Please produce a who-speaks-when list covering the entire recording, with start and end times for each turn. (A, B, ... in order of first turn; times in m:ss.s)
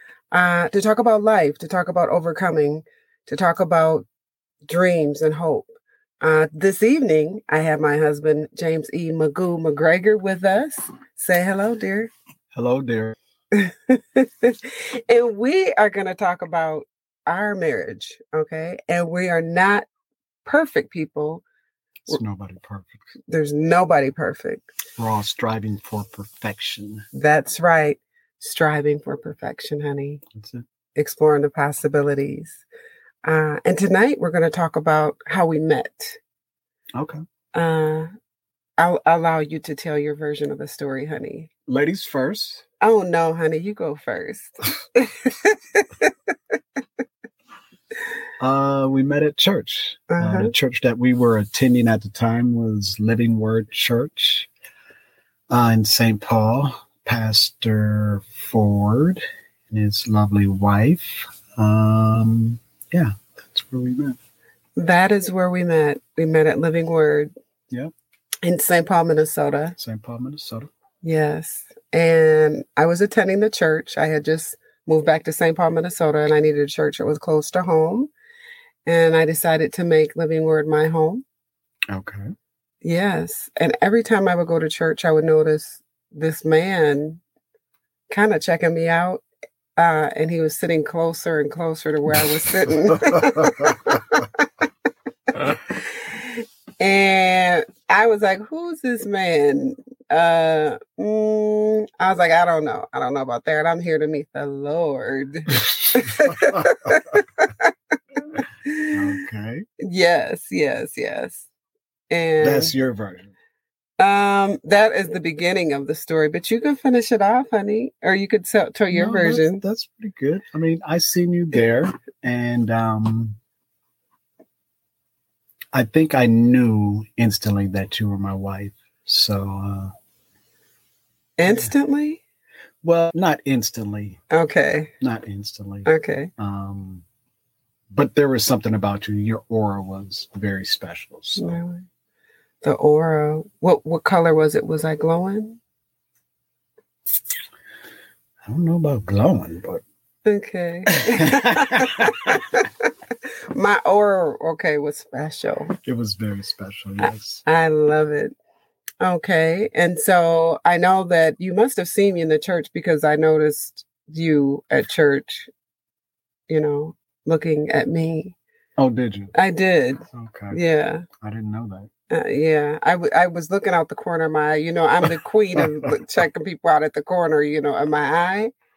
0:00.3-0:04.1 A
0:04.7-0:05.7 A
0:06.2-0:12.1 A
0:12.5-0:13.2 B
0:13.5-0:19.9 A
0:20.4-0:21.4 A
0:22.1-0:23.0 B
0:23.3-0:24.7 A
0:25.0-0:27.0 B
0:27.1-0:30.2 A
0:30.3-0:30.6 B
0:31.0-0:32.6 A
0:33.2-0:36.2 A
0:37.0-0:37.2 B
0:37.5-0:38.1 A
0:38.8-0:41.5 A
0:41.7-0:42.6 B
0:42.8-0:46.3 A
0:48.4-0:54.5 B
0:50.1-0:50.5 A
0:55.5-1:04.2 B
1:04.8-1:07.3 A
1:08.4-1:09.8 A
1:09.8-1:10.7 B
1:11.0-1:18.1 A
1:18.9-1:21.2 A
1:21.9-1:22.3 B
1:22.8-1:27.2 A
1:28.1-1:29.2 A
1:29.8-1:34.5 A
1:33.1-1:33.8 B
1:35.3-1:47.7 A
1:45.7-1:47.0 B
1:48.6-1:49.0 A
1:48.9-1:49.6 B
1:49.8-1:51.5 A
1:52.1-1:52.7 A
1:52.4-1:53.3 B
1:54.0-1:59.6 A
1:58.9-2:03.4 B
2:05.7-2:09.9 B
2:11.4-2:12.2 A
2:11.4-2:11.7 B
2:12.8-2:14.2 B
2:14.3-2:14.9 A
2:15.0-2:17.0 B
2:15.9-2:16.3 A
2:17.9-2:21.6 B
2:21.4-2:21.9 A
2:22.6-2:25.6 A
2:28.4-2:29.8 B
2:30.3-2:32.9 A
2:30.9-2:32.4 B
2:33.5-2:35.8 A
2:35.8-2:37.4 B
2:37.0-2:38.3 A
2:39.0-2:45.5 A
2:46.5-2:48.4 A
2:48.8-2:49.3 B
2:49.3-2:51.1 A
2:50.1-2:50.6 B
2:51.2-2:51.9 B
2:52.1-2:58.5 A